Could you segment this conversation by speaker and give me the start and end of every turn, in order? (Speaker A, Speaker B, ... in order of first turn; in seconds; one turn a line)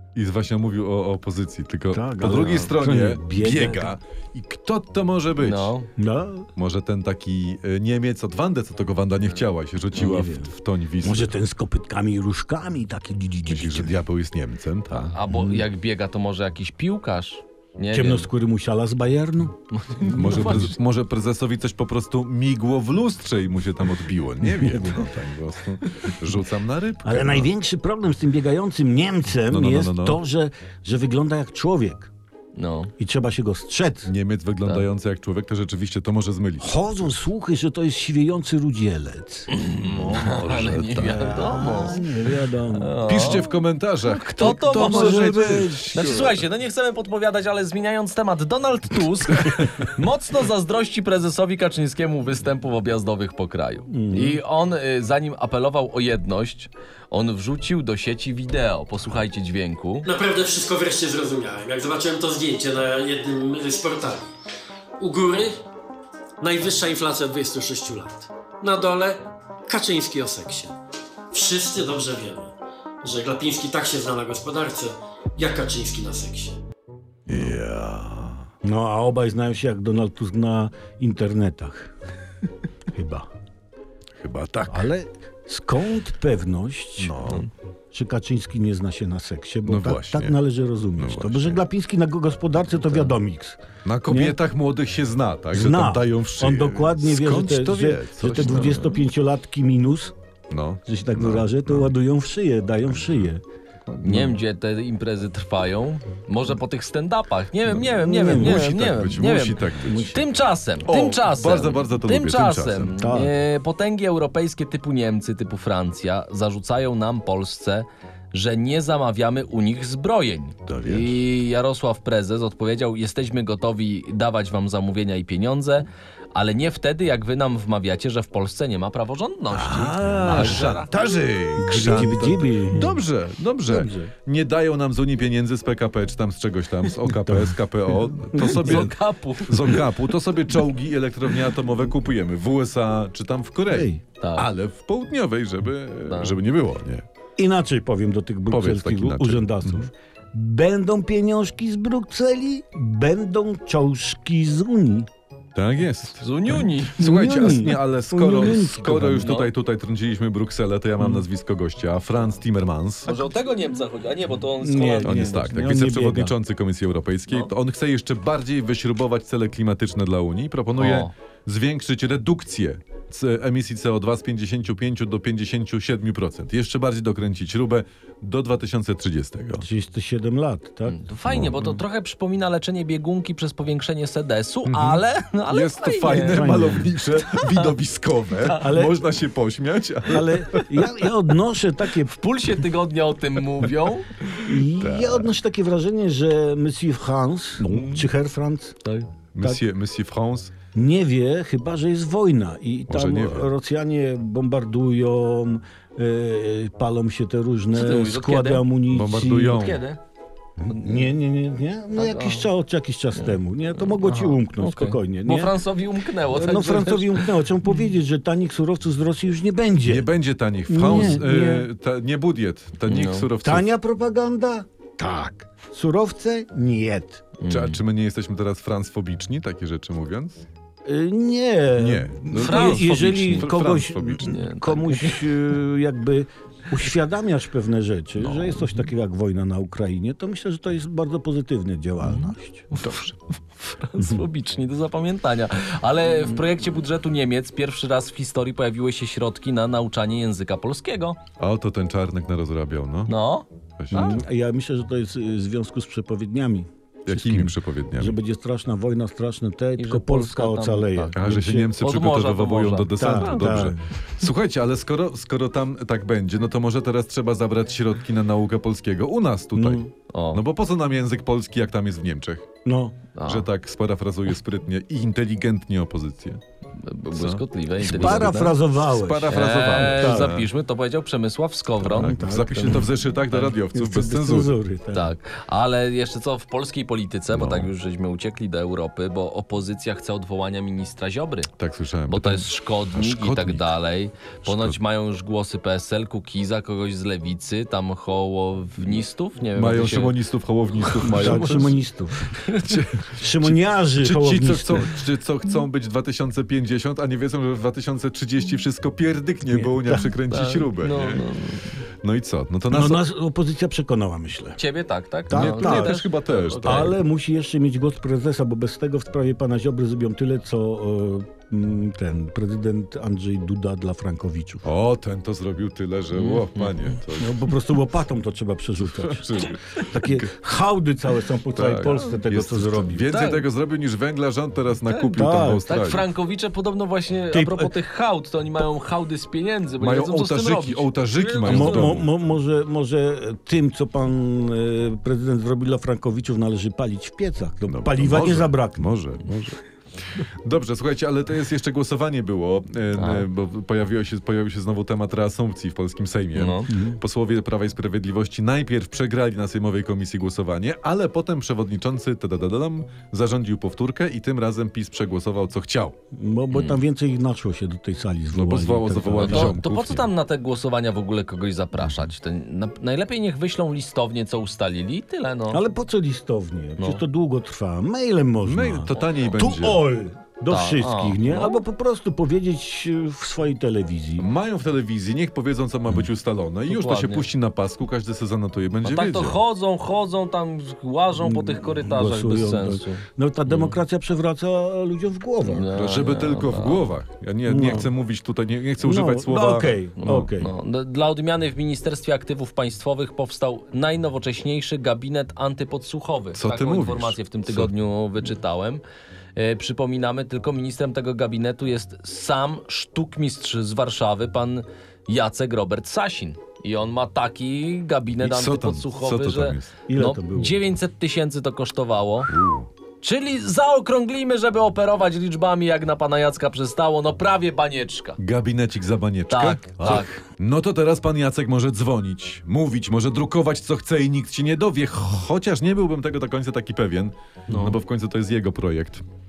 Speaker A: 0.1-5.7
Speaker B: 1.9-4.0
Speaker C: 5.4-5.9
Speaker B: 6.0-6.5
Speaker A: 6.6-11.3
Speaker B: 9.9-10.5
Speaker B: 11.0-13.9
Speaker A: 13.5-15.1
Speaker C: 15.0-18.3
Speaker B: 15.3-15.7
Speaker B: 17.9-19.6
Speaker C: 19.7-20.7
Speaker A: 20.1-27.5
Speaker B: 20.1-20.6
Speaker B: 24.4-25.1
Speaker B: 27.0-32.1
Speaker A: 29.5-30.2
Speaker C: 32.6-32.9
Speaker B: 33.0-34.1
Speaker A: 34.1-36.7
Speaker B: 36.6-39.5
Speaker C: 39.5-42.0
Speaker A: 39.8-41.9
Speaker B: 40.3-43.0
Speaker C: 42.8-43.5
Speaker A: 43.1-46.4
Speaker C: 44.1-60.1
Speaker B: 44.2-46.3
Speaker B: 53.9-54.4
Speaker D: 60.0-64.3
Speaker D: 65.0-65.6
Speaker D: 66.4-70.8
Speaker D: 71.3-76.6
Speaker A: 77.3-78.5
Speaker B: 77.3-77.5
Speaker B: 78.6-81.9
Speaker B: 82.9-83.3
Speaker A: 84.2-84.9
Speaker B: 84.7-94.4
Speaker A: 87.0-87.5
Speaker A: 89.7-90.4
Speaker A: 91.0-91.6
Speaker A: 93.8-99.0
Speaker B: 95.5-100.1
Speaker C: 98.4-98.8
Speaker A: 100.5-101.9
Speaker B: 100.9-103.4
Speaker A: 103.0-103.3
Speaker A: 103.9-104.4
Speaker C: 104.0-130.9
Speaker A: 107.8-110.2
Speaker B: 107.9-108.7
Speaker B: 109.9-110.2
Speaker A: 110.8-113.0
Speaker B: 113.0-113.3
Speaker A: 120.7-121.2
Speaker A: 129.5-147.1
Speaker B: 130.2-130.7
Speaker B: 131.6-133.0
Speaker B: 133.7-134.1
Speaker B: 137.2-138.9
Speaker C: 138.4-139.8
Speaker B: 143.7-144.0
Speaker C: 144.2-144.5
Speaker C: 146.1-146.4
Speaker B: 147.4-155.1
Speaker A: 148.5-149.9
Speaker A: 155.6-163.1
Speaker C: 156.2-157.1
Speaker B: 157.0-159.4
Speaker C: 159.2-159.5
Speaker B: 161.0-161.2
Speaker C: 163.1-165.4
Speaker B: 164.6-166.3
Speaker A: 165.0-179.7
Speaker C: 170.8-171.1
Speaker B: 179.6-181.0
Speaker C: 180.9-187.7
Speaker A: 181.3-181.8
Speaker A: 184.7-190.7
Speaker B: 186.3-186.9
Speaker B: 188.5-189.1
Speaker B: 190.1-192.1
Speaker C: 192.1-194.2
Speaker B: 194.4-198.8
Speaker A: 194.8-195.3
Speaker A: 197.6-198.1
Speaker A: 199.3-200.5
Speaker B: 200.7-209.7
Speaker A: 202.9-203.5
Speaker C: 207.7-208.6
Speaker A: 208.9-209.8
Speaker C: 209.5-210.0
Speaker B: 210.6-215.6
Speaker C: 210.7-211.1
Speaker C: 212.0-212.5
Speaker C: 214.0-217.8
Speaker B: 216.3-220.1
Speaker A: 219.9-223.7
Speaker B: 220.7-221.7
Speaker C: 222.9-223.3
Speaker B: 223.4-227.2
Speaker C: 227.4-227.8
Speaker A: 227.5-230.5
Speaker B: 230.8-242.7
Speaker A: 231.8-234.5
Speaker C: 232.3-233.4
Speaker C: 234.2-235.3
Speaker C: 242.1-251.2
Speaker A: 242.8-243.1
Speaker A: 251.4-253.1
Speaker C: 253.1-254.2
Speaker A: 253.8-254.2
Speaker B: 253.9-261.7
Speaker A: 257.1-258.2
Speaker C: 259.8-261.2
Speaker A: 261.1-272.5
Speaker C: 261.7-263.7
Speaker B: 263.0-263.8
Speaker B: 269.6-269.9
Speaker C: 270.1-270.4
Speaker B: 272.6-273.0
Speaker C: 273.2-273.5
Speaker A: 273.2-276.4
Speaker C: 276.8-278.6
Speaker A: 277.1-280.5
Speaker B: 277.8-280.4
Speaker C: 279.3-283.5
Speaker B: 281.8-282.9
Speaker A: 281.9-284.5
Speaker B: 283.7-285.1
Speaker C: 284.9-291.5
Speaker A: 287.3-287.7
Speaker A: 291.6-293.7
Speaker C: 292.1-300.1
Speaker A: 294.4-294.8
Speaker A: 299.6-301.8
Speaker C: 300.9-301.4
Speaker B: 301.0-302.4
Speaker C: 302.4-302.8
Speaker A: 302.5-311.3
Speaker B: 303.1-304.9
Speaker B: 309.5-310.1
Speaker C: 310.3-311.8
Speaker A: 312.0-313.1
Speaker B: 312.7-314.6
Speaker C: 314.6-317.0
Speaker B: 315.3-316.0
Speaker A: 315.3-317.0
Speaker B: 316.6-324.6
Speaker A: 324.6-327.5
Speaker C: 326.1-326.9
Speaker B: 327.2-333.1
Speaker A: 328.9-330.3
Speaker A: 331.5-336.1
Speaker C: 333.1-333.4
Speaker B: 335.1-335.7
Speaker C: 335.7-341.9
Speaker B: 337.3-337.7
Speaker A: 339.8-342.1
Speaker B: 341.4-348.9
Speaker A: 347.7-349.6
Speaker A: 350.3-366.0
Speaker C: 353.0-353.3
Speaker C: 356.4-356.7
Speaker B: 356.7-357.0
Speaker B: 366.1-369.6
Speaker C: 366.5-366.8
Speaker A: 368.3-370.1
Speaker C: 369.2-375.6
Speaker B: 375.5-384.3
Speaker A: 378.4-379.8
Speaker C: 380.5-381.6
Speaker A: 384.2-389.4
Speaker C: 386.7-387.3
Speaker C: 388.8-393.8
Speaker B: 391.2-395.7
Speaker C: 395.4-396.9
Speaker A: 395.7-400.3
Speaker B: 397.5-397.9
Speaker B: 398.8-400.5
Speaker C: 400.0-408.8
Speaker A: 406.4-407.7
Speaker C: 409.4-422.3
Speaker A: 418.2-419.8
Speaker B: 419.9-420.6
Speaker A: 422.3-422.7
Speaker C: 423.0-428.2
Speaker A: 428.2-439.0
Speaker C: 429.3-430.2
Speaker C: 437.5-437.8